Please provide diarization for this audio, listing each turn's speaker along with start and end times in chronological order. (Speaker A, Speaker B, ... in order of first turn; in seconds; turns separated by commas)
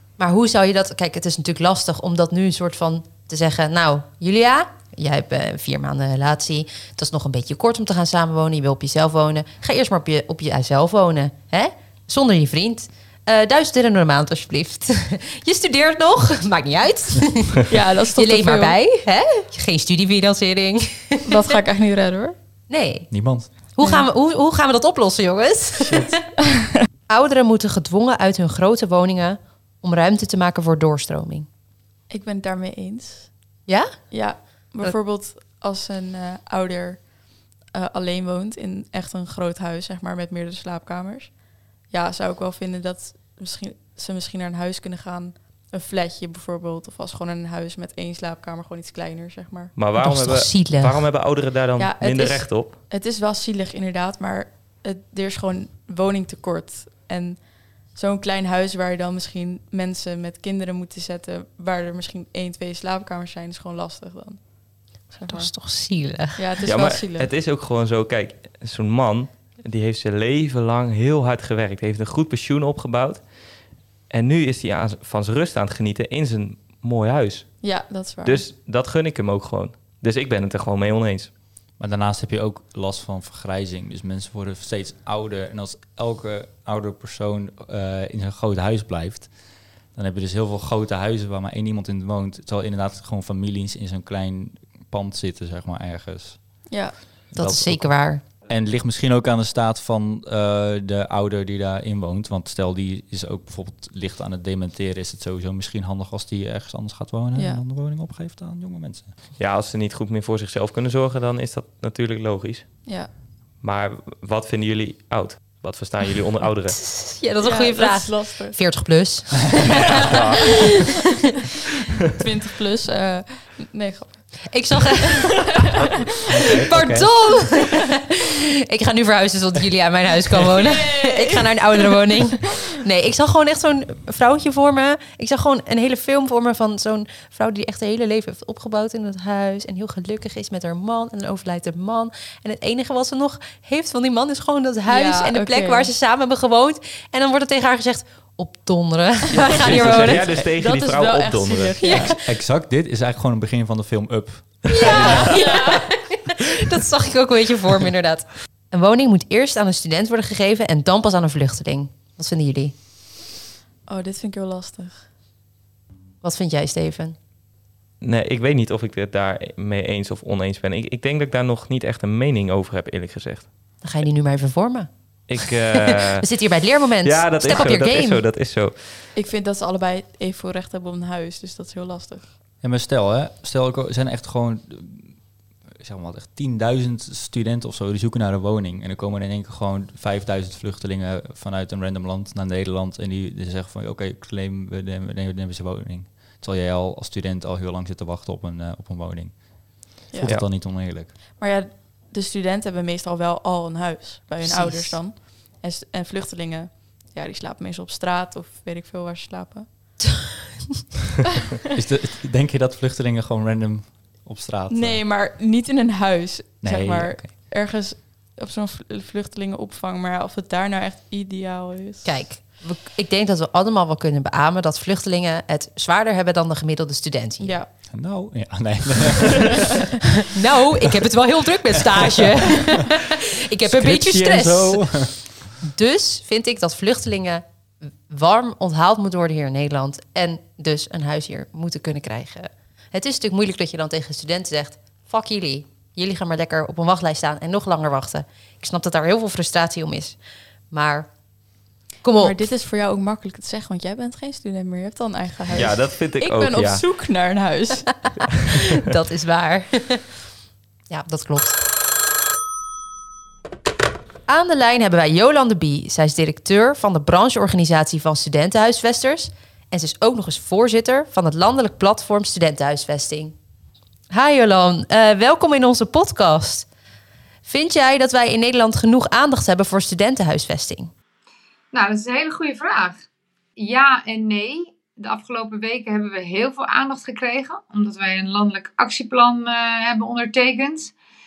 Speaker A: 0.2-21.3, Speaker B: 17.7-18.8, Speaker B: 21.3-22.4, Speaker A: 22.7-23.1, Speaker C: 23.1-23.5, Speaker A: 23.8-26.2, Speaker C: 25.8-26.1, Speaker A: 27.1-31.5, Speaker B: 32.1-33.3, Speaker A: 33.7-34.9, Speaker B: 34.1-37.1, Speaker B: 37.7-41.4, Speaker B: 41.9-49.7, Speaker D: 49.8-52.8, Speaker A: 50.0-51.0, Speaker B: 51.8-64.4, Speaker B: 65.1-65.5, Speaker A: 65.3-66.5, Speaker B: 66.4-67.3, Speaker D: 66.7-73.2, Speaker D: 74.1-77.6, Speaker B: 77.6-78.4, Speaker D: 78.2-81.3, Speaker C: 81.8-89.3, Speaker C: 89.9-96.4, Speaker B: 96.7-97.0, Speaker C: 97.3-97.9, Speaker A: 97.3-98.2, Speaker C: 98.5-109.1, Speaker D: 109.4-112.8, Speaker D: 113.6-116.8, Speaker A: 116.8-120.7, Speaker B: 117.4-118.6, Speaker D: 119.6-120.6, Speaker B: 122.2-124.4, Speaker A: 124.5-125.4, Speaker C: 125.8-127.1, Speaker A: 126.7-150.3, Speaker B: 130.5-132.2, Speaker B: 144.9-145.9, Speaker D: 149.3-152.0, Speaker B: 149.7-152.2, Speaker C: 151.9-155.4, Speaker A: 154.8-162.7, Speaker B: 154.8-155.8, Speaker B: 163.9-165.0, Speaker A: 166.2-167.2, Speaker D: 168.0-173.5, Speaker A: 173.8-174.9, Speaker D: 175.3-176.3, Speaker A: 175.8-178.2, Speaker D: 177.0-179.1, Speaker B: 179.2-182.3, Speaker C: 182.6-185.1, Speaker C: 185.8-199.3, Speaker C: 200.1-201.1, Speaker B: 201.4-209.7, Speaker A: 204.4-205.0, Speaker C: 211.7-215.0, Speaker B: 214.7-222.1, Speaker C: 216.6-217.3, Speaker A: 222.0-227.6, Speaker B: 227.4-227.7, Speaker C: 227.9-229.9, Speaker A: 230.3-234.9, Speaker C: 231.9-232.9, Speaker C: 233.6-235.3, Speaker A: 235.6-237.4, Speaker A: 238.1-250.2, Speaker A: 250.7-251.1, Speaker A: 252.0-252.5, Speaker B: 252.2-258.0, Speaker D: 255.5-256.8, Speaker A: 258.7-260.1, Speaker A: 260.9-261.6, Speaker A: 264.3-273.3, Speaker A: 274.1-276.7, Speaker A: 277.4-280.9, Speaker E: 281.7-283.0, Speaker E: 283.6-290.9